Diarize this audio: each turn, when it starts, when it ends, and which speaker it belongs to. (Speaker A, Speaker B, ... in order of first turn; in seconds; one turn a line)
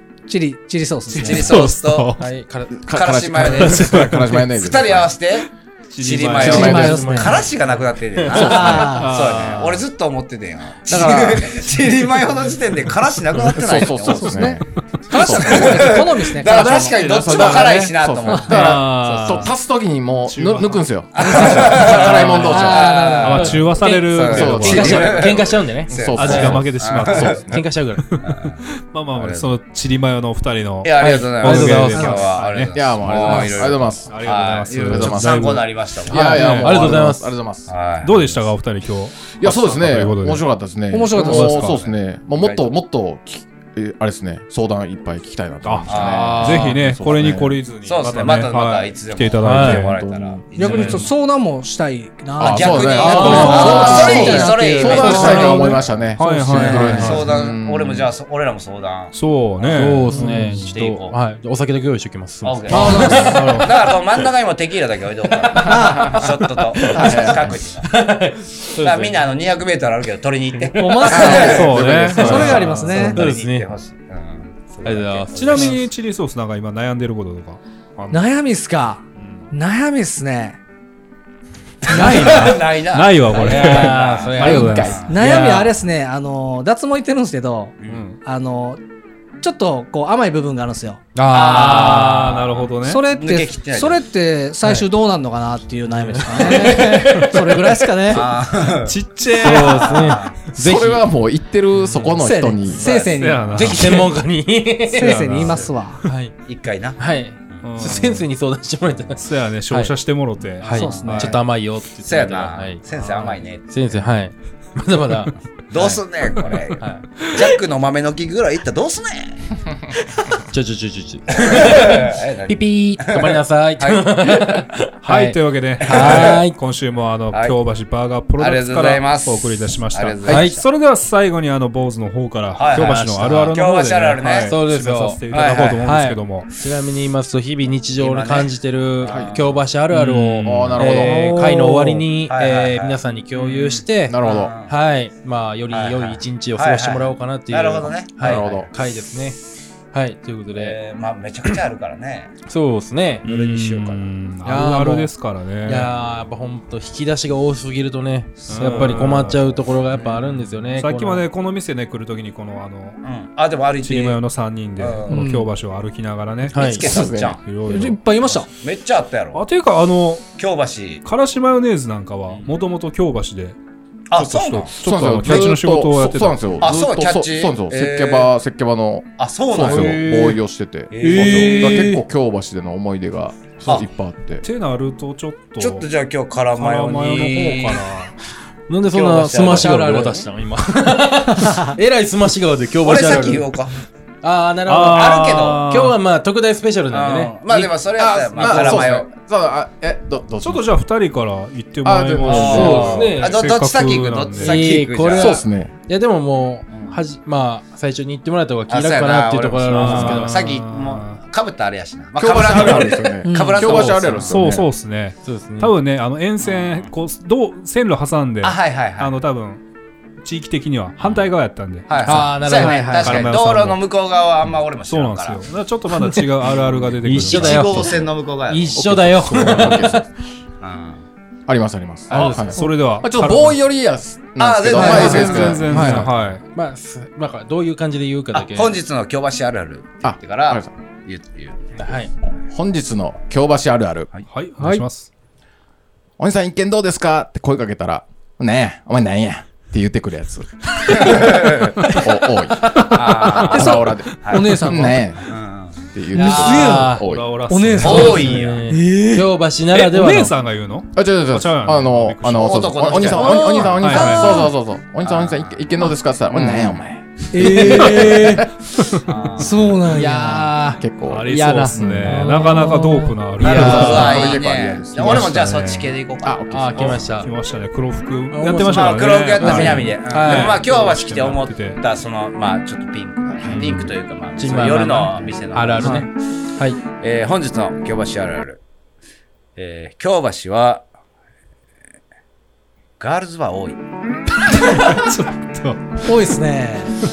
Speaker A: 0.3-1.6
Speaker B: 1.1-2.3
Speaker C: 1.1-2.2
Speaker D: 1.2-1.6
Speaker D: 2.2-2.9
Speaker E: 2.8-5.1
Speaker C: 2.9-14.5
Speaker B: 3.4-4.5
Speaker B: 5.9-7.0
Speaker D: 6.4-7.5
Speaker A: 6.4-7.4
Speaker E: 6.5-7.0
Speaker D: 8.2-8.9
Speaker A: 8.3-9.1
Speaker B: 8.4-9.8
Speaker A: 10.9-11.5
Speaker E: 11.0-11.3
Speaker E: 13.4-23.1
Speaker A: 13.8-17.8
Speaker C: 15.1-18.8
Speaker B: 18.5-19.5
Speaker A: 19.1-19.4
Speaker B: 20.3-22.7
Speaker C: 21.1-23.6
Speaker A: 21.2-23.6
Speaker B: 23.2-25.3
Speaker D: 23.3-26.6
Speaker C: 24.1-27.4
Speaker E: 24.2-25.3
Speaker E: 25.9-27.7
Speaker B: 26.1-33.4
Speaker D: 27.5-28.1
Speaker C: 28.2-28.6
Speaker C: 29.1-29.5
Speaker C: 30.8-37.0
Speaker D: 31.4-32.3
Speaker E: 32.7-34.1
Speaker A: 33.2-33.7
Speaker B: 34.0-36.9
Speaker E: 34.8-38.4
Speaker D: 36.1-37.3
Speaker C: 37.7-38.2
Speaker B: 38.0-40.5
Speaker E: 39.3-47.6
Speaker A: 40.9-41.8
Speaker C: 41.4-42.7
Speaker B: 45.6-49.9
Speaker C: 45.9-46.6
Speaker D: 46.0-47.3
Speaker C: 47.8-51.0
Speaker D: 49.4-50.2
Speaker E: 49.8-50.4
Speaker A: 50.5-57.2
Speaker B: 50.6-51.1
Speaker E: 52.4-58.1
Speaker C: 52.4-56.0
Speaker D: 53.0-55.8
Speaker B: 56.1-57.3
Speaker C: 56.8-59.9
Speaker D: 56.9-57.1
Speaker B: 59.1-60.7
Speaker D: 59.7-64.2
Speaker A: 60.1-60.5
Speaker C: 60.7-61.2
Speaker C: 62.4-67.9
Speaker A: 62.7-63.6
Speaker D: 65.3-69.3
Speaker A: 65.5-66.2
Speaker E: 66.9-67.6
Speaker C: 68.8-71.8
Speaker D: 70.6-71.0
Speaker A: 70.8-73.2
Speaker E: 71.0-72.7
Speaker B: 71.2-73.1
Speaker D: 72.2-73.7
Speaker C: 72.5-75.8
Speaker D: 74.8-75.8
Speaker B: 75.3-78.2
Speaker A: 78.1-80.6
Speaker B: 79.2-79.5
Speaker C: 81.8-85.2
Speaker A: 81.8-82.6
Speaker D: 81.9-82.6
Speaker B: 82.9-85.0
Speaker D: 83.3-85.7
Speaker A: 85.0-88.8
Speaker B: 87.9-88.2
Speaker A: 89.4-91.0
Speaker D: 91.2-92.5
Speaker C: 91.3-92.3
Speaker B: 91.4-93.0
Speaker A: 92.8-98.3
Speaker C: 93.0-94.0
Speaker B: 96.0-97.3
Speaker D: 96.2-97.8
Speaker C: 98.1-100.4
Speaker B: 98.8-100.2
Speaker D: 99.3-101.1
Speaker E: 100.6-103.0
Speaker D: 101.7-102.9
Speaker A: 102.2-104.0
Speaker C: 102.8-103.7
Speaker B: 103.1-104.1
Speaker D: 103.5-106.4
Speaker A: 104.9-106.0
Speaker B: 105.0-105.6
Speaker C: 106.5-107.0
Speaker D: 107.0-109.9
Speaker B: 107.6-108.3
Speaker B: 109.2-111.4
Speaker D: 110.6-116.0
Speaker A: 110.7-111.4
Speaker C: 110.9-111.4
Speaker C: 112.1-114.0
Speaker C: 115.7-119.4
Speaker D: 116.8-117.3
Speaker D: 120.3-126.6
Speaker C: 121.3-124.4
Speaker B: 125.0-136.5
Speaker C: 125.8-126.4
Speaker C: 127.3-127.6
Speaker C: 128.4-130.7
Speaker D: 130.3-130.6
Speaker C: 132.6-134.6
Speaker D: 132.7-133.5
Speaker D: 134.5-135.2
Speaker C: 135.3-135.9
Speaker D: 135.8-149.4
Speaker C: 138.0-139.6
Speaker E: 139.0-139.4
Speaker B: 139.9-140.9
Speaker E: 140.4-141.2
Speaker A: 141.0-142.0
Speaker C: 142.2-144.7
Speaker E: 144.1-144.5
Speaker C: 145.7-148.7
Speaker E: 148.2-148.7
Speaker D: 149.9-150.8
Speaker C: 150.5-152.3
Speaker D: 152.5-153.3
Speaker B: 153.2-155.9
Speaker C: 153.3-154.1
Speaker D: 154.4-155.1
Speaker D: 155.7-161.3
Speaker C: 158.4-159.1
Speaker B: 158.5-163.0
Speaker C: 163.0-164.2
Speaker B: 163.8-168.4
Speaker C: 164.8-165.2
Speaker A: 165.1-165.5
Speaker D: 166.5-166.9
Speaker C: 166.6-167.4
Speaker E: 166.6-167.4
Speaker A: 167.7-168.5
Speaker C: 168.5-169.4
Speaker B: 169.3-170.3
Speaker C: 170.4-171.1
Speaker B: 171.0-173.6
Speaker C: 172.3-172.5
Speaker C: 174.1-174.7
Speaker B: 174.2-176.5
Speaker E: 174.8-184.4
Speaker C: 175.2-175.5
Speaker C: 176.6-178.3
Speaker C: 179.2-180.2
Speaker B: 179.6-180.4
Speaker C: 180.9-181.8
Speaker D: 181.0-182.0
Speaker B: 181.7-182.0
Speaker B: 184.4-185.9
Speaker C: 185.6-187.8
Speaker B: 186.6-188.1
Speaker D: 188.7-193.6
Speaker C: 188.9-190.3
Speaker A: 189.5-190.2
Speaker A: 191.3-191.7
Speaker C: 192.8-193.8
Speaker D: 194.2-197.8
Speaker B: 194.7-196.0
Speaker C: 194.9-195.7
Speaker C: 196.9-199.1
Speaker E: 198.0-200.7
Speaker D: 198.4-198.9
Speaker B: 200.4-204.8
Speaker E: 201.8-203.0
Speaker C: 202.2-205.5
Speaker D: 202.3-203.4
Speaker D: 204.4-210.3
Speaker E: 205.1-205.7
Speaker C: 206.7-207.0
Speaker C: 208.7-214.6
Speaker B: 209.7-211.2
Speaker E: 212.2-214.7
Speaker A: 213.2-213.8
Speaker B: 214.2-219.6
Speaker D: 215.2-215.7
Speaker C: 216.4-216.9
Speaker C: 218.4-219.2
Speaker B: 220.2-223.8
Speaker C: 221.0-221.3
Speaker C: 221.9-225.5
Speaker D: 222.0-223.3
Speaker A: 222.6-223.2
Speaker B: 224.9-228.0
Speaker C: 226.6-228.8
Speaker D: 227.0-230.1
Speaker E: 228.8-230.1
Speaker B: 229.3-229.8
Speaker C: 230.6-231.0
Speaker E: 231.5-236.1
Speaker D: 232.1-232.6
Speaker C: 232.1-232.4
Speaker B: 232.5-233.6
Speaker C: 234.4-235.8
Speaker D: 234.7-238.8
Speaker B: 234.7-236.4
Speaker C: 238.3-241.6
Speaker E: 240.0-240.7
Speaker D: 241.8-242.1
Speaker E: 242.5-244.1
Speaker B: 244.3-245.1
Speaker E: 246.2-255.3
Speaker C: 251.0-251.8
Speaker C: 252.9-254.7
Speaker A: 253.4-255.1
Speaker C: 255.3-255.8
Speaker E: 255.9-257.4
Speaker A: 256.1-259.3
Speaker D: 256.1-257.1
Speaker B: 257.0-258.4
Speaker D: 257.8-260.4
Speaker C: 257.8-258.6
Speaker B: 259.7-264.4
Speaker E: 260.9-268.5
Speaker C: 262.4-264.5
Speaker A: 263.1-264.5
Speaker C: 265.0-265.7
Speaker D: 266.4-266.8
Speaker A: 267.3-268.5
Speaker D: 267.4-268.1
Speaker B: 268.7-269.2
Speaker C: 269.1-269.8
Speaker A: 269.4-270.8
Speaker D: 269.9-271.8
Speaker E: 270.8-272.3
Speaker B: 271.1-274.3
Speaker A: 272.0-273.1
Speaker C: 273.4-277.0
Speaker E: 273.4-275.4
Speaker B: 274.9-275.9
Speaker E: 276.2-277.1
Speaker D: 276.5-277.3
Speaker B: 276.8-281.8
Speaker D: 278.3-280.6
Speaker C: 278.7-286.1
Speaker E: 283.4-283.9
Speaker D: 283.5-286.8
Speaker A: 285.8-286.1
Speaker C: 287.0-288.6
Speaker C: 289.6-290.9
Speaker C: 293.0-293.8
Speaker B: 294.5-296.2
Speaker A: 296.1-297.0